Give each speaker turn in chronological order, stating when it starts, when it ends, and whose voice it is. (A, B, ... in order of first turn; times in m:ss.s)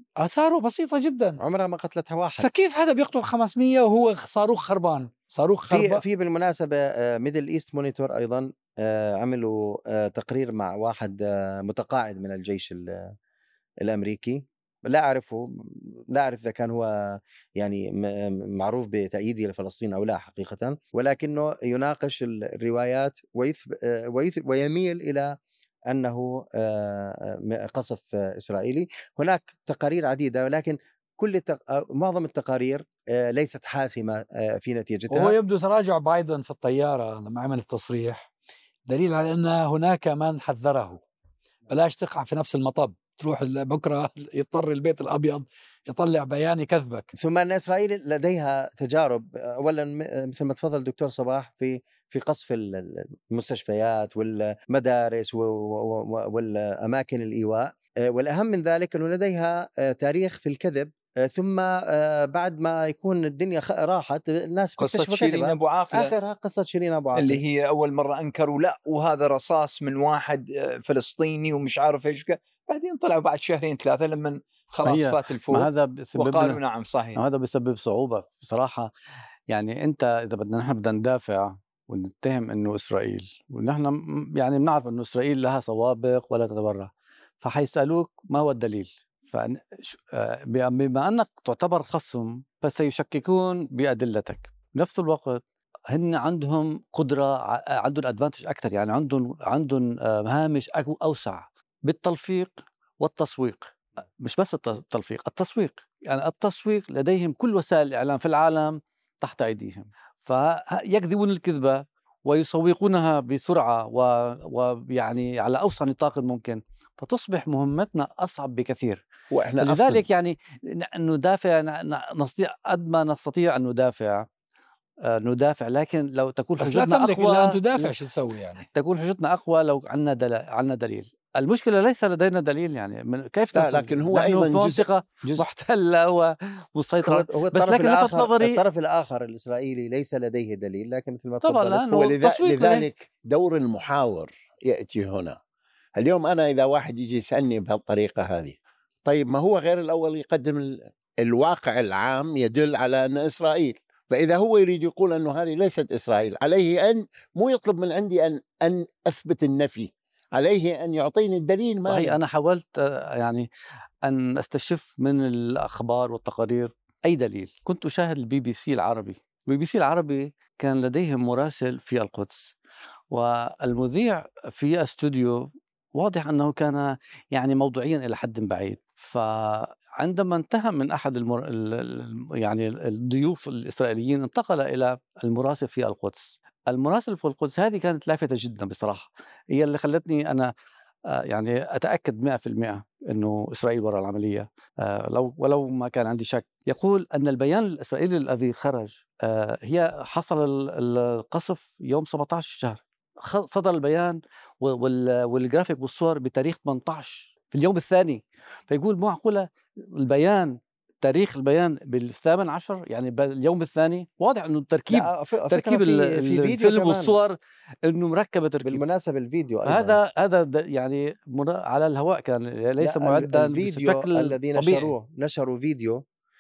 0:00.2-0:01.4 A
0:01.4-0:02.5 B
0:02.4-0:06.0 A
0:05.7-0:13.1 B
0:13.8-0:25.4 B
0:25.9-0:35.4 B
0:35.1-0:38.3 A
0:38.9-0:41.0 A
0:41.7-0:47.1 A
0:47.1-1:07.4 B
1:04.8-1:06.1 C
1:07.2-1:17.2 C
1:14.8-1:16.6 D
1:17.1-1:18.9 D
1:19.5-1:59.0 D
1:59.3-2:00.0 E
1:59.6-2:04.3 D
2:05.0-2:07.9 D
2:06.6-2:08.7 A
2:08.7-2:18.6 D
2:13.5-2:14.8 E
2:17.0-2:21.8 B
2:21.4-2:22.8 D
2:21.9-2:25.4 E
2:26.0-2:42.2 E
2:41.8-2:43.5 D
2:44.0-2:52.5 D
2:53.1-3:10.5 D
3:11.1-3:38.8 D
3:34.9-3:37.1 B
3:38.6-3:40.0 B
3:39.6-3:44.9 D
3:42.8-3:46.0 B